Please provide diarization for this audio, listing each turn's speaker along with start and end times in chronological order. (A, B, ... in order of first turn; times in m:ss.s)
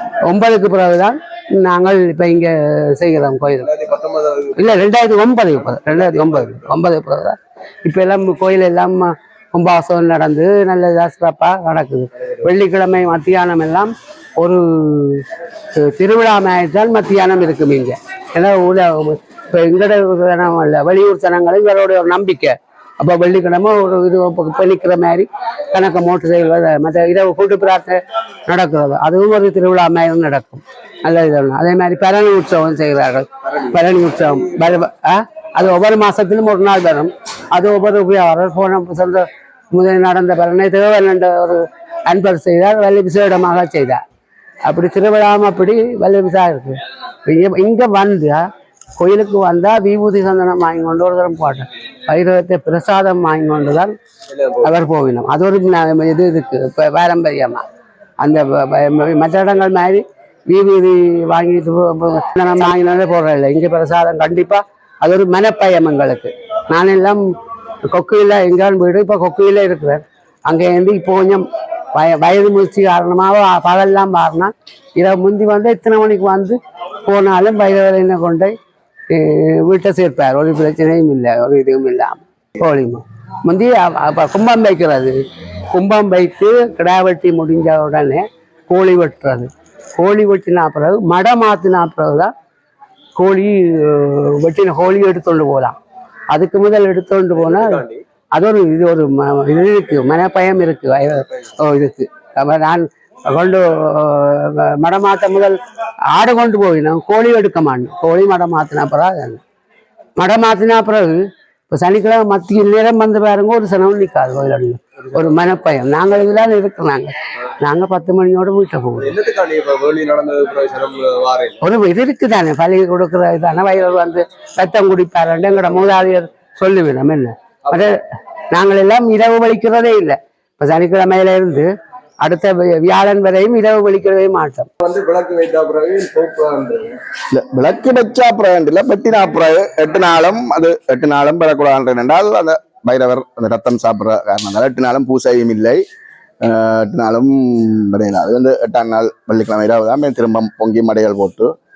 0:00.3-0:03.7 A
0:03.6-0:04.9 B
0:04.6-0:44.0 A
0:05.6-0:06.6 B
0:33.4-0:34.8 B
0:44.6-0:48.4 A
0:49.0-0:53.9 A
0:54.3-0:54.7 B
0:54.6-0:57.6 A
0:58.2-1:07.2 A
1:07.9-1:18.5 A
1:19.1-1:25.2 A
1:25.7-1:32.3 A
1:33.2-1:35.8 A
1:36.3-1:37.8 A
1:37.4-1:38.0 B
1:38.3-1:45.6 A
1:46.1-1:49.4 A
1:50.2-1:59.1 A
1:55.1-1:55.4 B
1:59.0-2:01.6 B
2:01.6-2:08.0 A
2:08.5-2:11.7 A
2:12.2-2:14.7 A
2:14.8-2:17.0 B
2:17.3-2:25.8 C
2:26.4-2:31.5 C